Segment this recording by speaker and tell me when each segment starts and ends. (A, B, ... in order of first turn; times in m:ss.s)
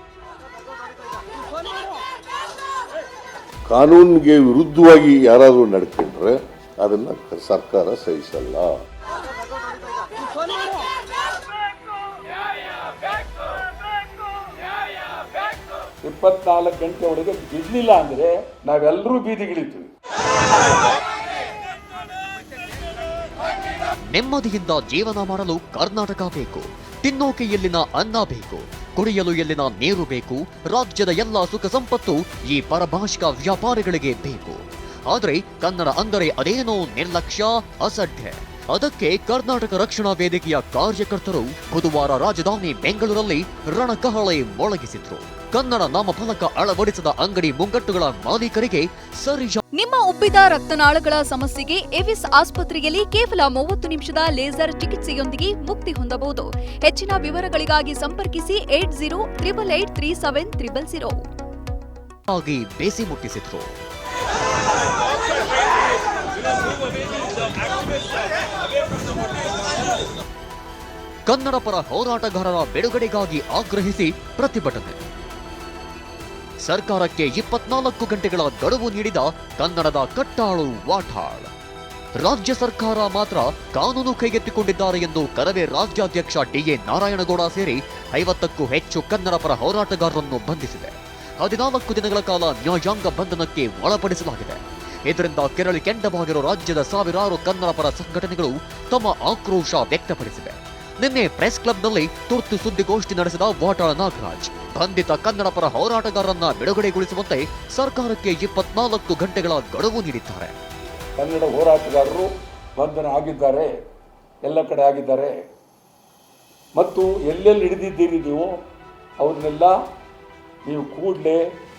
0:03.7-0:08.7 A
0:16.0-0:19.9 B
0:24.1-0:49.6 C
0:49.8-1:01.2 D
1:02.3-1:03.7 C
1:11.3-1:15.0 C
1:16.6-1:21.5 C
1:22.2-1:50.5 C
1:51.2-1:53.7 B
1:54.4-1:55.3 B
1:56.7-1:58.5 B
1:59.2-1:59.8 B
2:00.6-2:01.4 B